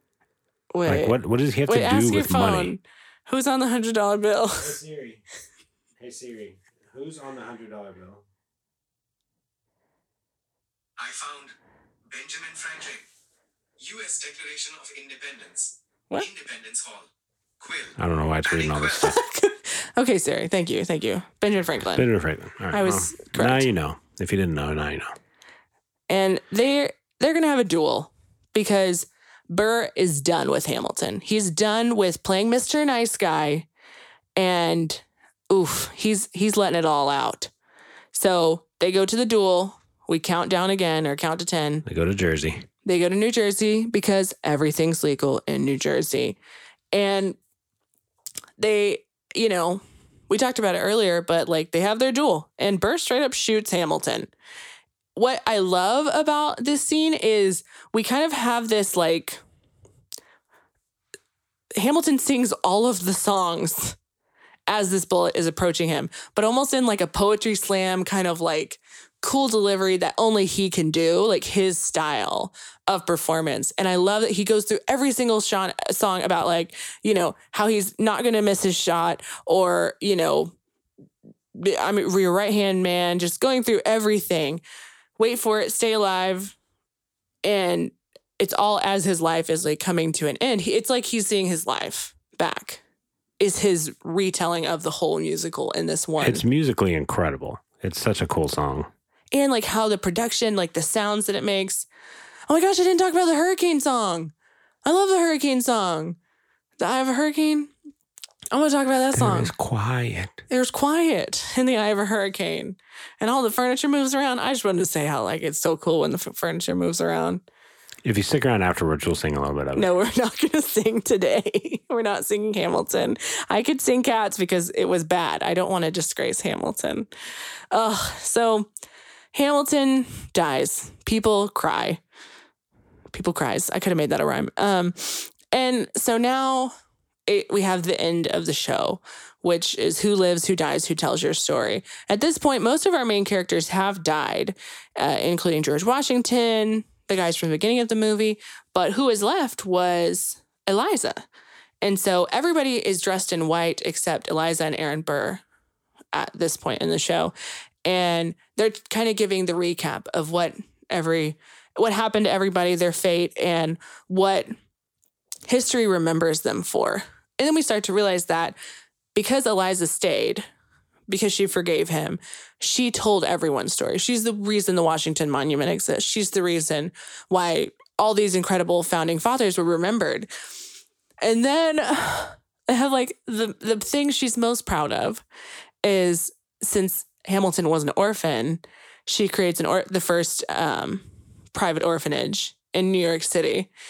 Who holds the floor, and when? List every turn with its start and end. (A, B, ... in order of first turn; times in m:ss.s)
0:00.7-0:04.8 A
0:00.9-0:02.8 B
0:04.6-0:05.2 B
0:06.0-0:08.2 B
0:11.0-0:11.5 C
0:12.1-0:13.0 C
0:13.8-0:17.1 C
0:17.6-0:19.1 C
0:18.0-0:19.2 B
0:19.0-0:22.1 A
0:21.9-0:25.1 B
0:22.7-0:23.7 A
0:26.1-0:33.7 A
0:34.4-0:37.5 A
0:38.1-0:41.8 A
0:41.8-0:42.7 B
0:42.8-0:46.4 A
0:46.9-0:47.4 A
0:48.6-0:54.3 A
0:55.2-0:59.4 A
1:01.8-1:04.0 A
1:04.7-1:20.5 A
1:21.6-1:24.6 A
1:25.2-1:26.6 A
1:27.4-1:32.8 A
1:33.4-1:36.4 A
1:36.2-1:38.9 B
1:39.3-1:41.9 A
1:42.5-1:44.3 A
1:44.8-1:46.2 A
1:46.8-1:47.7 A
1:48.5-1:49.5 A
1:49.1-1:50.4 B
1:50.5-1:57.4 A
1:58.0-1:59.9 B
1:59.8-2:07.1 A
2:07.7-2:08.7 A
2:09.3-2:12.0 A
2:13.1-2:16.7 A
2:17.3-2:31.2 A
2:31.8-2:35.4 A
2:36.1-2:37.3 A
2:37.8-2:44.5 A
2:45.5-2:48.6 A
2:49.2-2:50.4 A
2:51.1-3:00.3 A
3:01.2-3:05.2 A
3:05.8-3:13.7 A